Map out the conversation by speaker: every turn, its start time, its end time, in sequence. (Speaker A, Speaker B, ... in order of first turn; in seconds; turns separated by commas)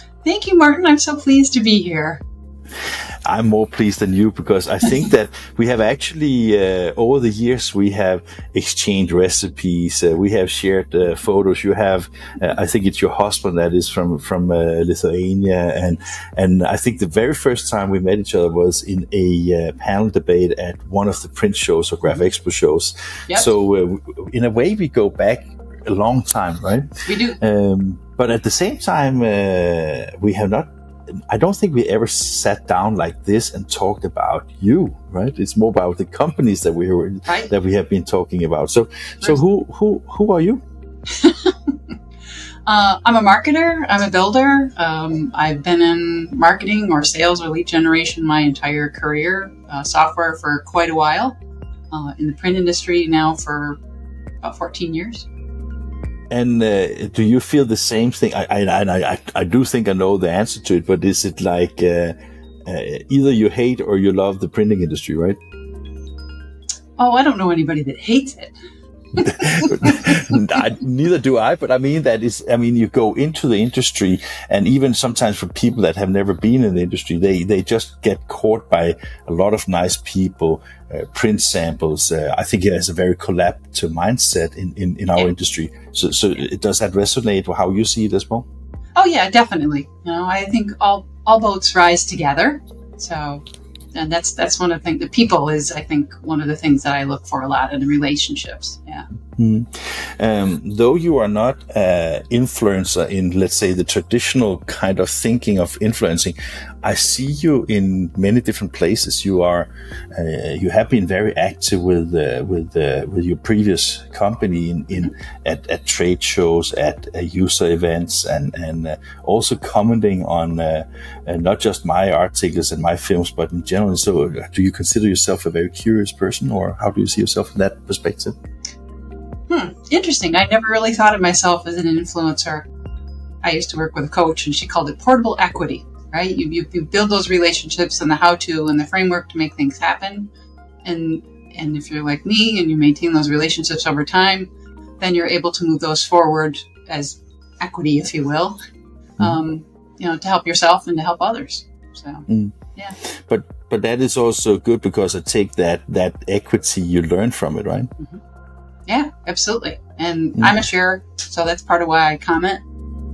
Speaker A: 0.2-2.2, Speaker B: 3.2-30.7, Speaker A: 27.1-27.4, Speaker B: 31.3-40.6, Speaker A: 41.1-41.9, Speaker A: 42.7-51.4, Speaker A: 51.9-53.8, Speaker A: 54.4-55.3, Speaker B: 56.3-65.4, Speaker A: 67.0-68.5, Speaker A: 69.2-70.4, Speaker B: 69.2-88.5, Speaker A: 89.0-99.0, Speaker B: 99.4-128.3, Speaker A: 129.5-132.7, Speaker A: 133.4-140.3, Speaker A: 140.8-148.6, Speaker A: 149.2-153.0, Speaker B: 152.3-157.9, Speaker A: 158.9-162.6, Speaker B: 160.4-160.7